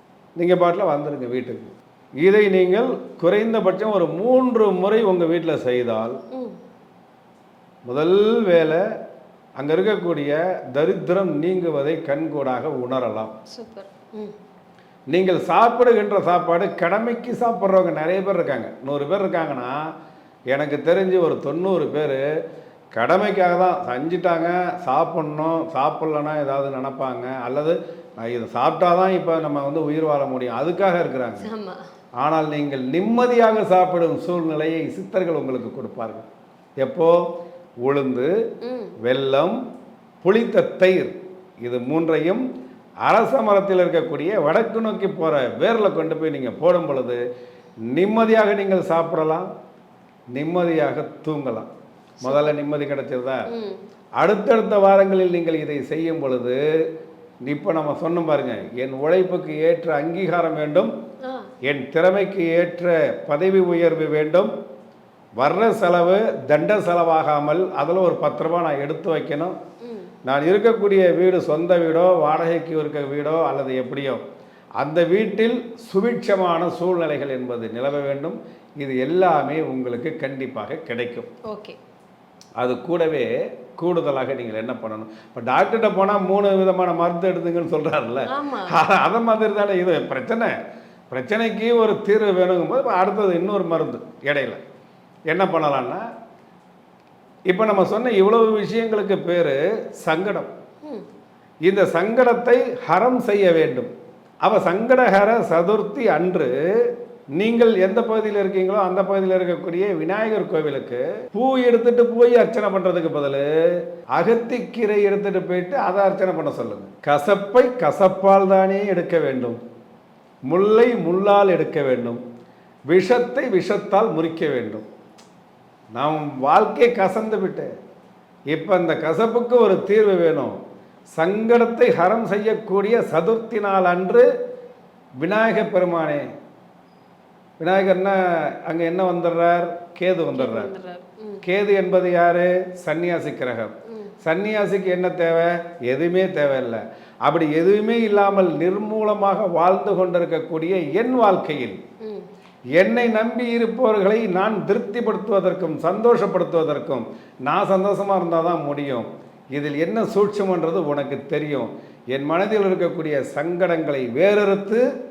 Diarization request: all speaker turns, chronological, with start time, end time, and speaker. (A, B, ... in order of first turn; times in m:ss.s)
0:00.4-0:06.2 A
0:07.9-0:08.8 A
0:09.6-0:13.3 A
0:13.5-0:14.3 B
0:15.1-0:19.9 A
0:20.5-0:22.2 A
0:22.9-0:31.5 A
0:31.4-0:31.8 B
0:32.2-0:36.3 A
0:36.8-0:37.2 A
0:37.8-0:38.3 A
0:38.6-0:39.0 B
0:39.0-0:39.6 A
0:40.2-0:42.4 A
0:43.0-0:47.2 A
0:47.9-0:49.5 A
0:50.3-0:51.7 A
0:52.2-0:52.6 B
0:52.2-0:53.5 A
0:53.5-0:53.8 B
0:54.2-0:56.6 A
0:57.4-1:00.9 A
1:01.2-1:01.5 B
1:01.7-1:04.5 A
1:05.4-1:09.6 A
1:09.8-1:10.1 B
1:10.3-1:14.2 A
1:14.8-1:21.3 A
1:21.5-1:21.8 B
1:22.6-1:30.5 A
1:28.3-1:28.8 B
1:31.1-1:34.6 A
1:35.3-1:36.0 A
1:37.5-1:40.5 A
1:41.6-1:43.9 A
1:44.4-1:53.5 A
1:54.2-1:59.6 A
2:00.5-2:02.2 A
2:02.9-2:04.8 A
2:05.9-2:07.7 A
2:08.5-2:10.6 A
2:11.2-2:14.3 A
2:15.2-2:16.2 A
2:17.6-2:20.7 A
2:20.3-2:21.4 B
2:21.4-2:23.7 A
2:24.2-2:31.8 A
2:32.8-2:44.9 A